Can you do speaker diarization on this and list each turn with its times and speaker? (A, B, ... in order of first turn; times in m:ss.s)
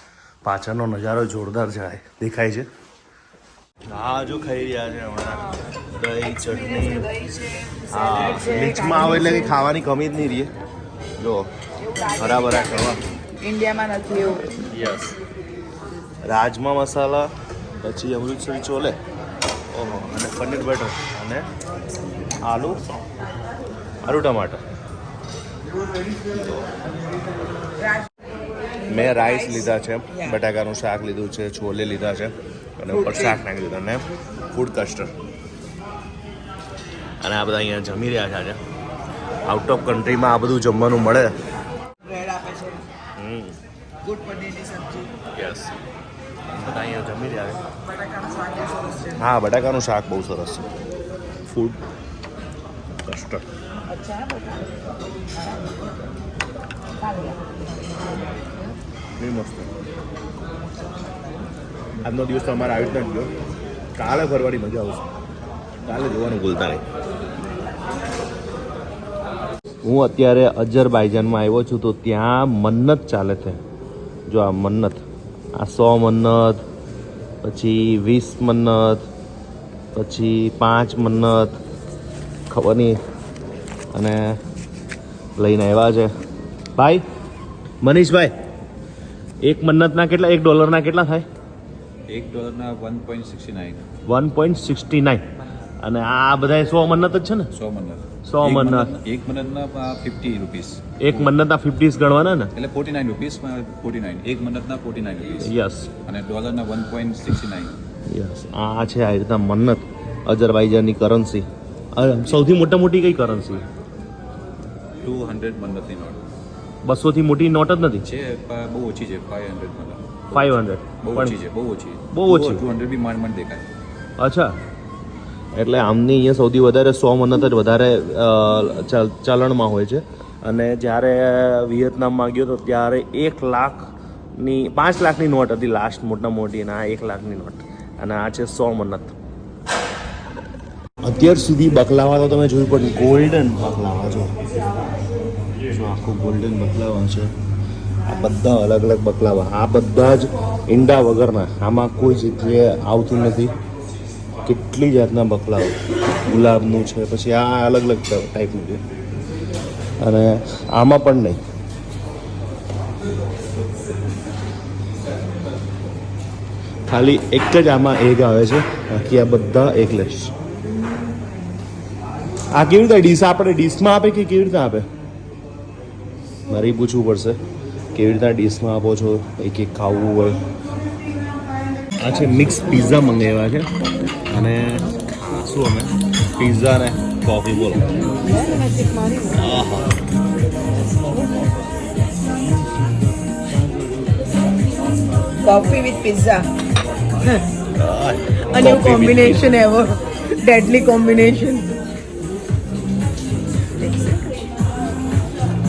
0:00.4-0:02.7 A
0:03.9-0:07.2 A
0:07.9-0:10.5 A
0:08.2-0:09.4 B
0:11.2-0:11.5 A
0:12.2-0:13.0 A
0:13.4-0:14.6 B
0:14.7-0:15.2 A
0:16.3-0:17.3 A
0:17.8-0:19.0 A
0:19.7-0:21.5 A
0:22.4-0:23.0 A
0:24.0-0:24.6 A
0:26.3-0:26.7 A
0:28.9-0:35.1 A
0:33.0-0:33.3 B
0:37.2-0:38.6 A
0:39.5-0:41.3 A
0:42.0-0:42.8 B
0:43.2-0:43.6 A
0:44.0-0:45.1 B
0:45.4-0:45.7 A
0:46.5-0:47.6 A
0:48.1-0:49.1 B
0:49.2-0:50.7 A
0:51.5-0:51.8 A
0:53.0-0:53.5 A
0:53.9-0:56.0 B
0:57.0-0:58.7 B
0:59.2-0:59.7 A
1:00.8-1:01.5 B
1:02.0-1:03.3 A
1:04.0-1:05.1 A
1:05.8-1:06.8 A
1:09.8-1:13.6 A
1:14.3-1:15.0 A
1:15.6-1:16.6 A
1:17.4-1:19.1 A
1:19.9-1:21.6 A
1:22.5-1:23.0 A
1:23.9-1:24.4 A
1:25.4-1:26.1 A
1:26.8-1:27.0 A
1:27.8-1:28.3 A
1:29.4-1:31.3 A
1:32.1-1:33.9 C
1:34.1-1:35.3 A
1:35.8-1:37.5 A
1:37.5-1:41.3 C
1:38.2-1:38.9 A
1:41.0-1:42.5 A
1:42.6-1:45.5 C
1:45.4-1:45.9 A
1:46.0-1:47.8 C
1:48.1-1:53.6 A
1:55.0-1:56.2 C
1:56.8-1:58.0 A
1:58.0-2:00.5 C
2:00.3-2:01.4 A
2:01.0-2:03.6 C
2:02.1-2:02.6 A
2:04.2-2:04.6 A
2:05.5-2:19.1 A
2:21.0-2:24.4 A
2:25.7-2:27.3 A
2:28.1-2:33.5 A
2:34.4-2:38.8 A
2:40.0-2:41.4 A
2:46.9-2:50.3 A
2:52.5-2:54.9 A
2:56.5-2:57.4 A
2:58.0-3:00.4 A
3:02.0-3:03.7 A
3:04.3-3:07.9 A
3:08.2-3:09.4 B
3:09.4-3:09.9 A
3:15.4-3:16.5 B
3:17.8-3:19.5 A
3:18.5-3:21.7 B
3:23.8-3:24.3 B